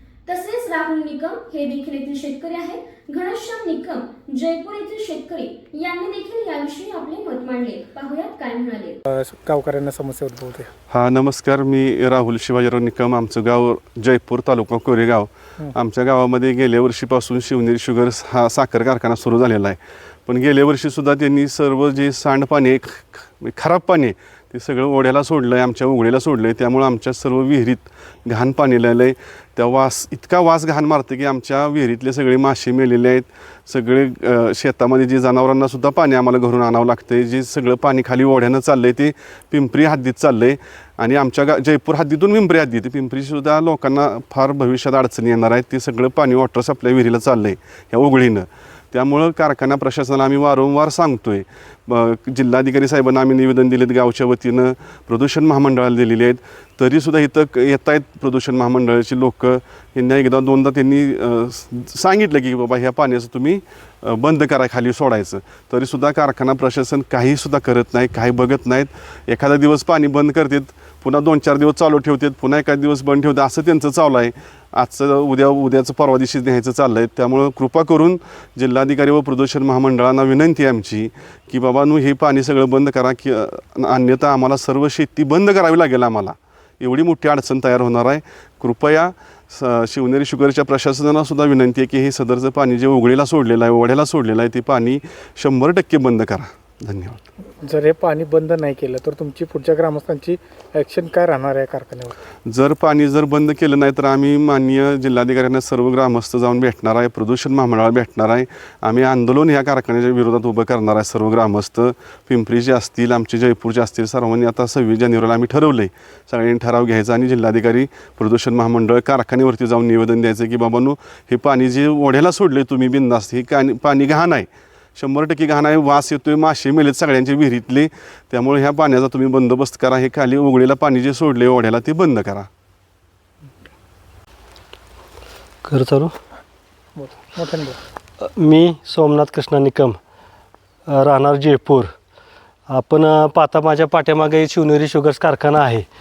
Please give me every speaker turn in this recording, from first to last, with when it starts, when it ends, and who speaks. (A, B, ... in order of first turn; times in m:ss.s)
0:00.2-0:09.0 A
0:09.0-0:10.7 B
0:10.9-1:37.2 C
1:37.6-1:42.2 B
1:42.5-2:12.5 C
2:15.6-2:16.1 D
2:17.0-2:17.8 B
2:18.2-2:20.0 D
2:20.9-2:21.9 D
2:22.7-2:25.8 D